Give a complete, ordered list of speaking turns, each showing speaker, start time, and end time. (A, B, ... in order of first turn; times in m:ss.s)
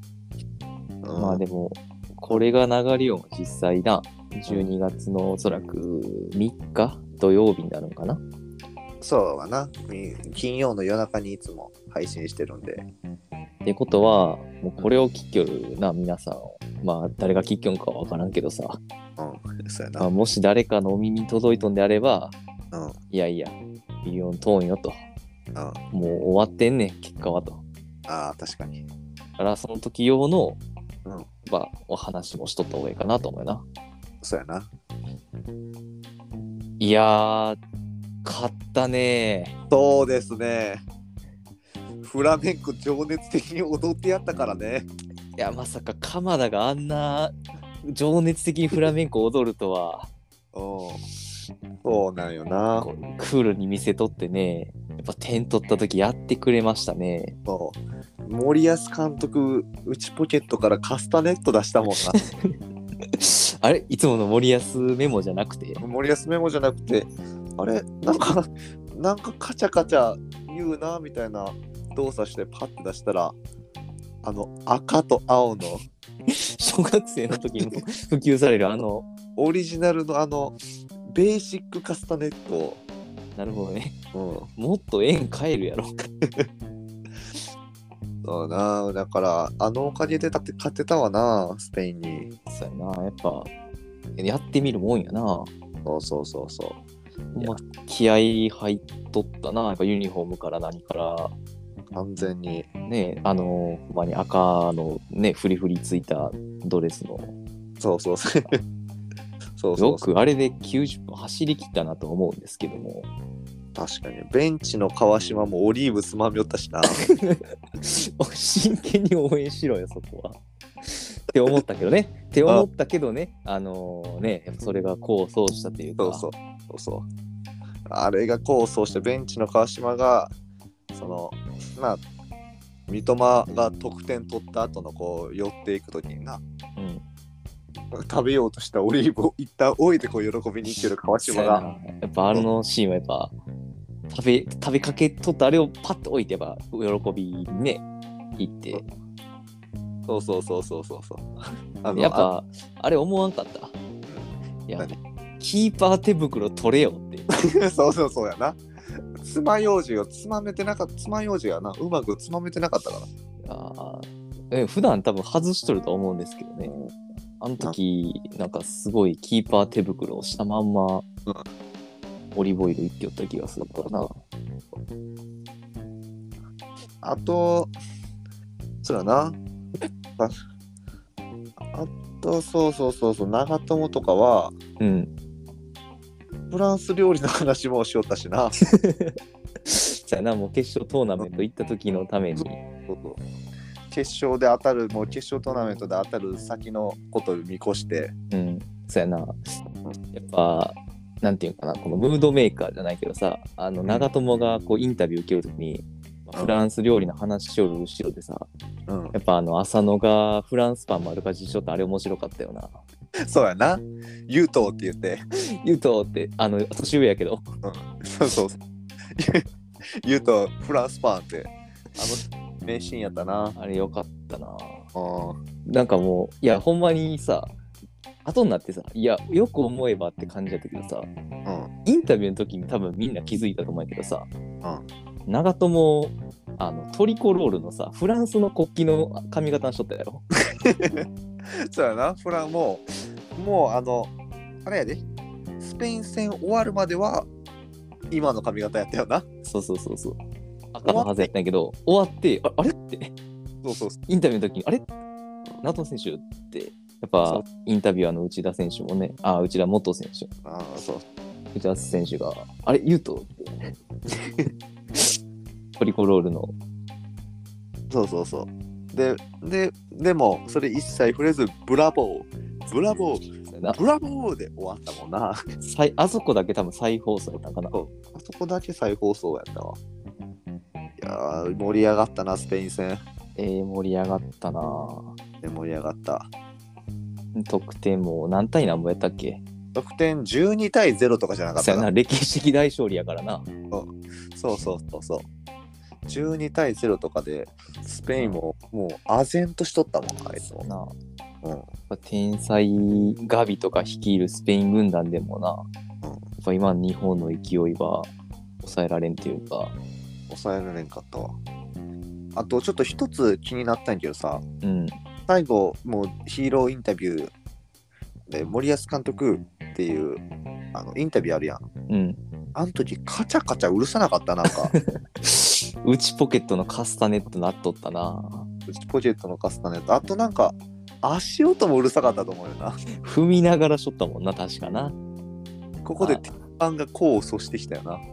0:01.0-0:01.4 A
0:01.2-0:08.2 B
0:04.5-0:04.7 A
0:09.0-0:12.9 A
0:13.6-0:18.8 B
0:19.2-0:20.1 A
0:20.0-0:22.4 B
0:23.1-0:25.0 B
0:25.9-0:27.6 B
0:28.1-0:28.8 A
0:29.4-0:30.6 B
0:31.5-0:33.6 B
0:34.2-0:34.7 A
0:36.8-0:37.6 B
0:38.2-0:39.6 B
0:39.7-0:40.8 A
0:42.0-0:44.9 A
0:45.4-0:47.3 B
0:47.8-0:50.1 B
0:50.5-0:51.0 A
0:51.8-0:52.9 A
0:52.8-0:57.4 B
0:57.5-1:02.2 A
1:02.1-1:02.5 B
1:03.1-1:05.8 B
1:05.8-1:13.4 A
1:14.2-1:15.8 A
1:16.3-1:19.1 B
1:19.4-1:20.6 A
1:21.1-1:22.8 A
1:23.4-1:24.0 B
1:24.1-1:24.5 A
1:24.6-1:25.9 B
1:28.2-1:32.3 A
1:32.5-1:33.5 B
1:34.2-1:35.5 B
1:35.8-1:36.8 A
1:37.4-1:41.3 B
1:41.9-1:42.7 A
1:42.8-1:47.3 B
1:47.8-1:48.6 A
1:49.6-1:50.1 A
1:49.8-1:53.1 B
1:53.8-1:57.0 A
1:56.9-2:06.3 B
2:06.0-2:07.1 A
2:07.9-2:10.3 A
2:10.9-2:12.0 A
2:12.9-2:16.4 A
2:16.8-2:17.0 B
2:17.9-2:21.6 A
2:21.2-2:23.3 B
2:24.1-2:27.8 B
2:28.4-2:28.8 B
2:30.1-2:31.3 A
2:31.8-2:32.3 A
2:31.9-2:33.8 B
2:34.1-2:35.0 A
2:34.7-2:37.3 B
2:37.3-2:38.6 A
2:39.2-2:43.1 A
2:43.4-2:46.7 B
2:46.7-2:46.9 A
2:47.4-2:51.1 B
2:52.4-2:54.2 B
2:53.6-2:54.1 A
2:57.0-2:57.7 A
2:58.8-2:59.4 A
3:01.7-3:04.6 A
3:04.8-3:05.1 B
3:06.5-3:08.6 A
3:08.6-3:12.6 B
3:12.4-3:13.2 A
3:13.9-3:18.1 A
3:18.3-3:19.4 B
3:20.1-3:28.5 B
3:28.9-3:29.2 A
3:29.1-3:32.8 B
3:33.2-3:35.2 A
3:35.6-3:37.4 B
3:37.6-3:38.6 A
3:39.2-3:39.4 A
3:40.0-3:43.6 A
3:43.6-3:44.9 B
3:45.0-3:45.4 A
3:45.7-3:47.5 B
3:48.2-3:51.1 B
3:51.5-3:51.7 A
3:51.9-3:54.3 B
3:55.3-4:00.2 B
4:00.5-4:04.1 A
4:04.6-4:05.0 A
4:05.6-4:07.3 A
4:08.1-4:09.2 A
4:09.5-4:10.2 B
4:10.7-4:13.1 B
4:10.8-4:11.3 A
4:13.6-4:14.0 A
4:14.1-4:14.9 B
4:15.6-4:20.3 B
4:20.4-4:21.0 A
4:21.5-4:23.7 B
4:24.1-4:24.5 A
4:25.8-4:26.5 B
4:27.9-4:35.4 A
4:33.5-4:33.8 B
4:35.6-4:37.8 B
4:37.7-4:39.8 A
4:41.0-4:43.0 A
4:43.4-4:45.1 B
4:45.4-4:46.3 A
4:47.4-4:49.4 B
4:49.8-4:51.9 A
4:51.6-4:53.5 B
4:53.7-4:55.3 A
4:56.1-5:00.7 A
4:58.2-4:58.4 B
5:00.4-5:00.9 B
5:01.9-5:05.7 B
5:06.4-5:08.1 B
5:08.6-5:09.8 B
5:10.3-5:11.4 A
5:12.4-5:14.4 A
5:14.6-5:15.0 B
5:15.3-5:17.3 A
5:18.3-5:20.2 A
5:20.7-5:21.6 A
5:21.9-5:22.2 B
5:22.6-5:24.7 A
5:24.4-5:28.5 B
5:28.7-5:32.8 A
5:33.0-5:35.0 B
5:35.8-5:38.0 A
5:36.0-5:36.4 B